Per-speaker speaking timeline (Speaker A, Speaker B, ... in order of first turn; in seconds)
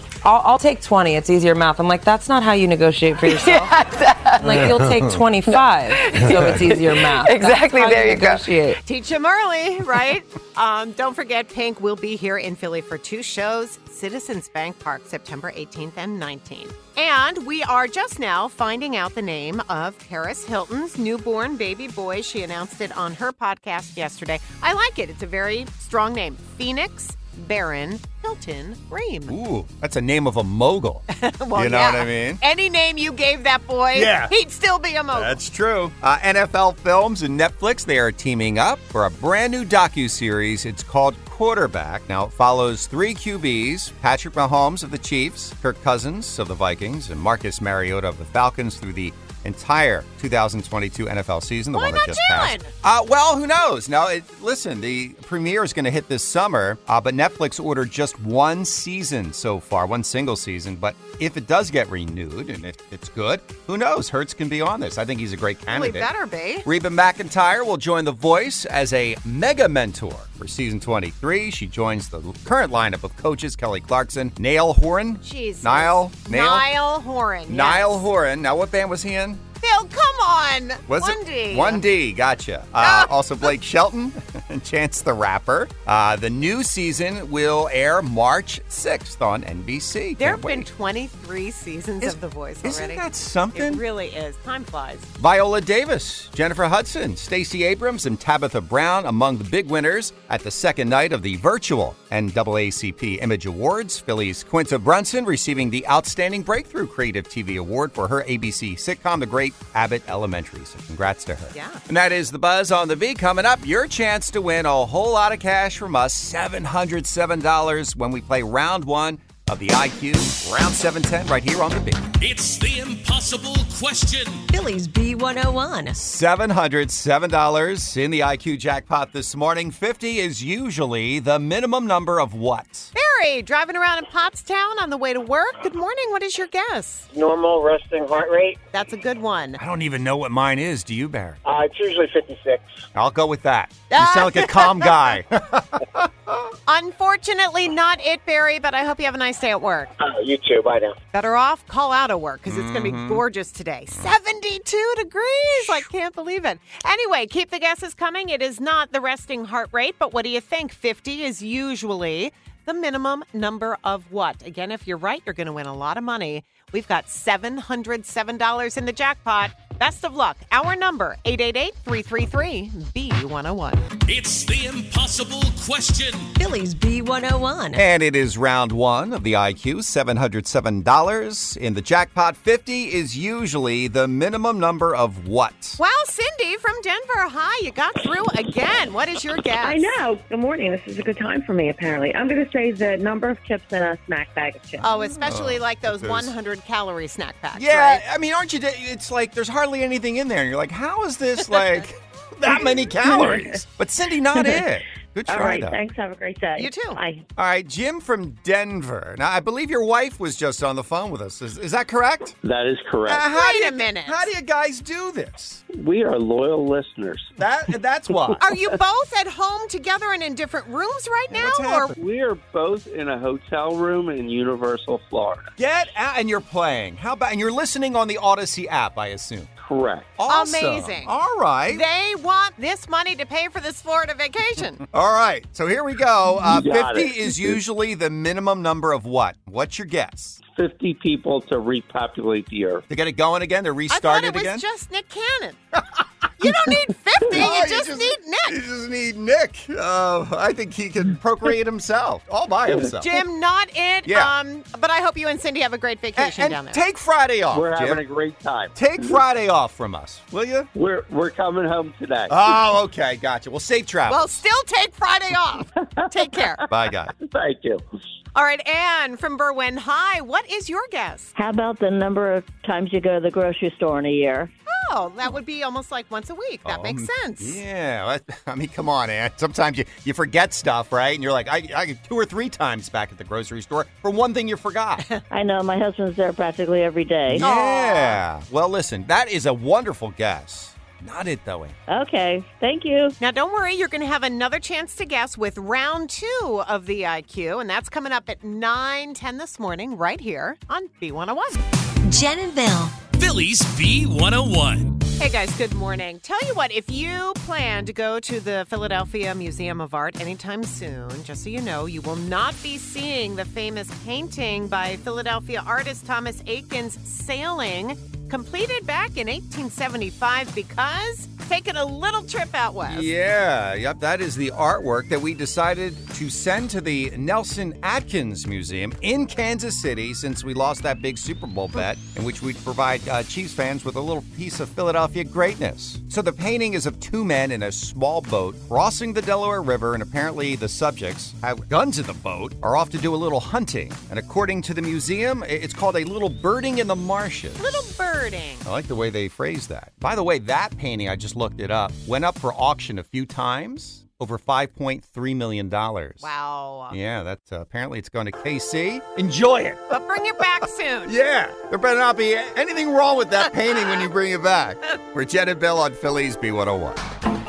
Speaker A: 0.2-8.8
Speaker B: 8.8-29.4, 31.1-35.4, 51.7-52.7, 65.7-66.7, 75.2-78.0, 79.6-81.8, 82.8-83.1, 90.2-95.1, 111.5-111.8, 132.9-137.1, 138.7-139.6, 143.9-144.9, 146.7-149.9, 151.1-173.8, 185.8-189.9, 194.8-198.0, 206.6-207.0, 213.3-214.3, 218.4-221.9, 230.3-231.1, 231.7-234.8, 243.9-245.6, 246.4-248.6, 253.0-256.8, 264.1-266.6, 268.4-271.3, 274.7-277.6, 287.4-288.2, 293.2-301.6, 305.2-323.1, 347.6-348.7, 356.2-357.0, 359.9-361.1
Speaker C: 29.3-32.4, 33.9-34.3, 35.1-66.1, 66.6-76.7, 77.5-79.4, 80.9-90.7, 92.0-93.8, 95.2-122.1, 126.0-132.9, 139.6-141.4, 142.9-146.5, 152.5-153.2, 155.6-155.9, 177.7-185.8, 194.9-196.3, 197.6-205.8, 207.4-212.4, 213.1-215.6, 217.4-218.5, 221.3-222.0, 225.6-229.5, 230.2-231.8, 234.9-240.4, 242.9-244.7, 247.3-253.2, 254.1-254.3, 256.2-258.0, 258.8-260.7, 262.3-264.4, 266.7-267.1, 276.6-285.1, 287.3-291.8, 322.9-347.8, 348.6-356.3, 356.9-359.8, 361.1-367.0
Speaker D: 122.2-124.4, 174.1-176.3, 303.2-305.0
Speaker E: 124.5-126.0, 176.4-177.8, 302.0-303.0
Speaker F: 137.1-138.6, 141.5-142.6, 150.0-150.9
Speaker G: 189.6-194.9, 203.1-203.4, 205.3-207.2
Speaker H: 212.4-213.3, 215.7-217.3, 222.0-225.5, 229.6-230.2, 236.4-237.6, 240.5-242.8, 257.5-259.2, 260.8-262.6, 267.2-267.8
Speaker I: 271.4-274.5, 285.3-287.5, 291.9-293.2